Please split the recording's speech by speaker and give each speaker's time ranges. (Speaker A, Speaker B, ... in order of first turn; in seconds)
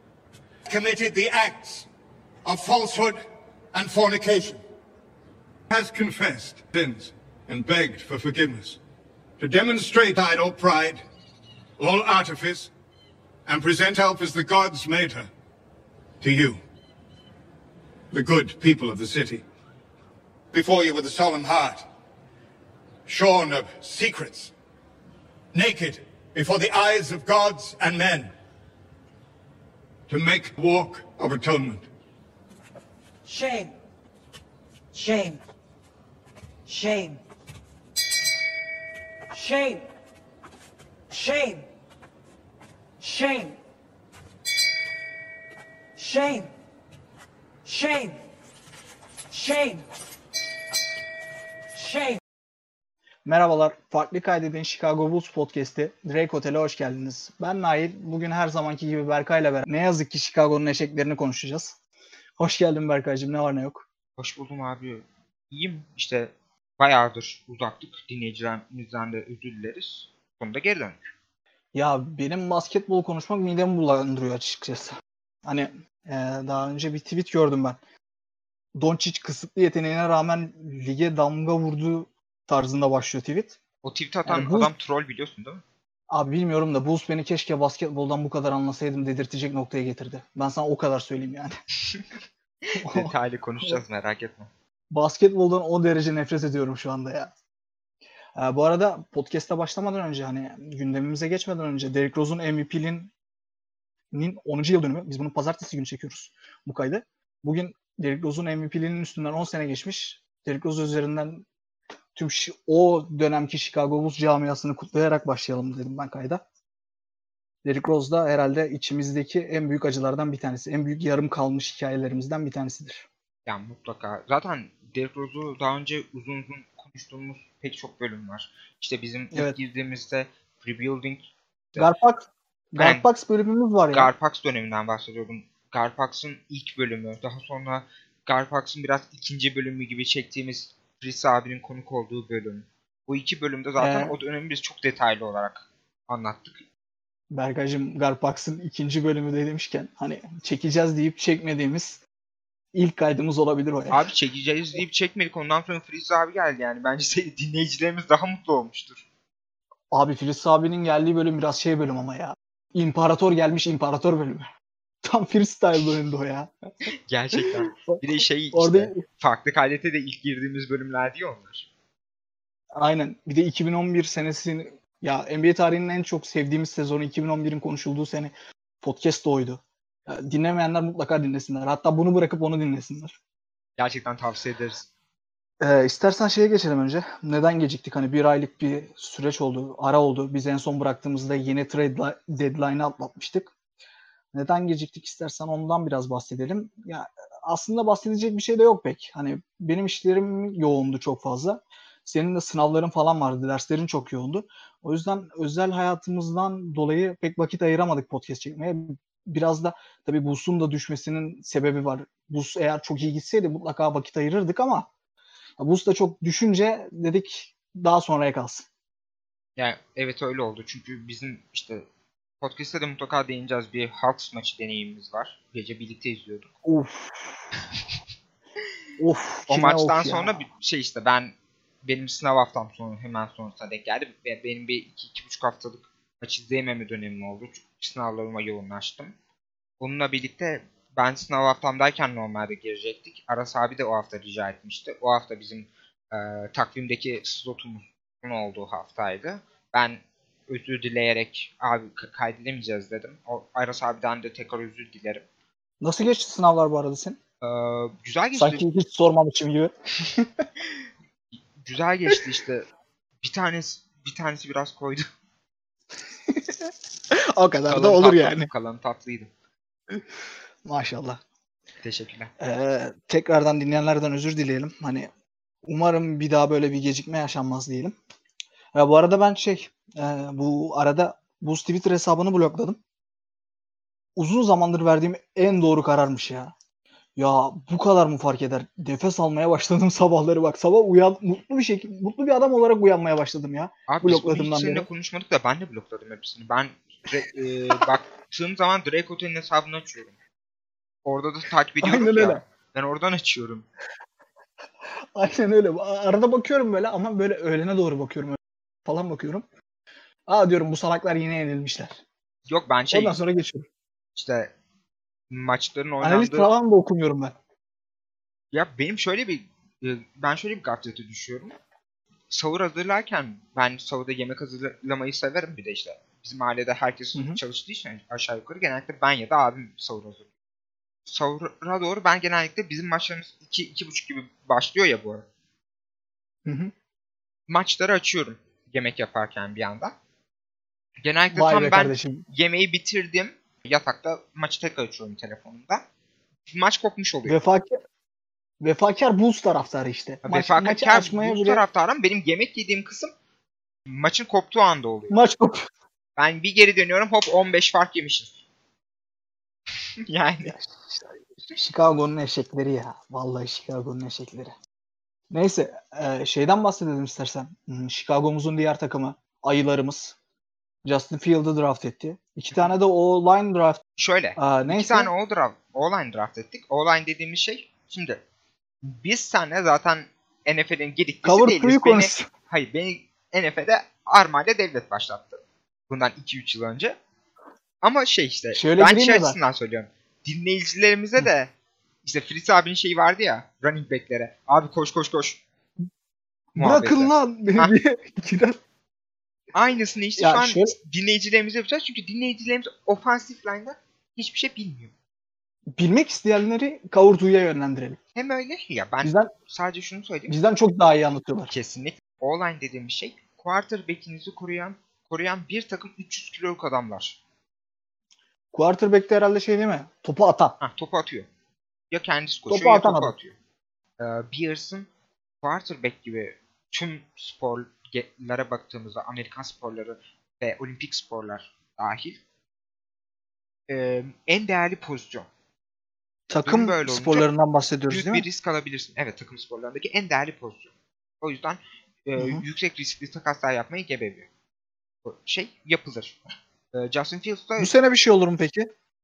Speaker A: 0.7-1.9, 2.4-4.6, 5.7-8.8, 9.4-11.0, 11.8-12.7, 13.4-15.3, 16.2-16.6, 18.1-19.4, 20.5-21.8, 23.1-24.5, 25.5-28.3, 30.1-31.9
Speaker B: 33.2-33.7, 34.9-35.4, 36.7-37.2, 39.3-39.8, 41.1-41.6, 43.0-43.5, 46.0-46.5, 47.6-48.2, 49.3-49.8, 51.9-52.2
Speaker C: 53.2-61.8, 62.4-63.8, 71.7-77.8, 78.7-83.6, 84.3-84.7, 86.1-91.5, 92.8-93.1, 94.9-97.3, 98.3-103.1, 104.1-111.5, 112.1-116.4, 117.6-123.0, 131.8-134.1, 143.8-144.2, 147.3-152.0, 152.7-154.0, 159.9-164.5, 165.0-166.5, 167.4-168.0, 168.5-169.0, 172.7-183.2, 185.6-193.5, 194.3-214.9, 215.6-218.7, 226.6-227.4, 229.0-230.4, 255.8-257.2, 258.4-260.4, 266.3-268.5, 270.6-271.2, 272.4-275.1, 275.6-277.9, 278.7-282.8, 284.1-286.5, 287.1-294.9, 301.8-302.4, 305.1-309.4, 310.3-312.0, 312.9-313.6, 316.0-317.3, 327.1-327.4, 336.4-336.7, 341.3-342.2, 347.2-347.8, 348.6-351.6, 355.1-355.7, 360.5-364.5, 365.3-370.1, 370.8-373.8, 374.4-375.1, 381.2-382.3, 388.5-389.4, 396.6-398.6, 400.2-400.7, 405.7-408.0, 409.0-409.3, 410.3-411.5, 418.5-420.6, 422.5-423.1, 436.3-438.2, 442.2-442.4, 447.6-448.7
Speaker D: 64.2-71.1, 83.8-85.6, 92.7-94.5, 123.5-131.9, 132.8-133.1, 133.9-146.6, 153.9-159.0, 167.1-171.7, 183.8-184.9, 219.6-221.8, 222.4-226.5, 229.5-239.1, 239.8-255.2, 257.4-258.6, 261.6-262.6, 263.2-265.1, 267.7-269.3, 271.8-272.3, 293.9-300.1, 301.0-303.6, 312.4-313.2, 314.1-314.5, 315.3-316.5, 318.5-321.5, 322.3-330.3, 331.1-335.2, 337.5-339.9, 341.0-345.8, 346.4-347.4, 350.2-353.1, 353.9-355.2, 356.2-358.4, 360.1-360.5, 374.0-378.2, 378.8-386.9, 387.8-391.5, 392.0-395.4, 396.6-397.7, 399.5-404.9, 408.1-410.4, 411.5-417.2, 420.6-421.3, 421.9-423.3, 424.0-424.9, 425.4-432.2, 433.7-435.3, 436.4-437.3, 437.9-444.3, 445.0-446.2, 446.7-447.7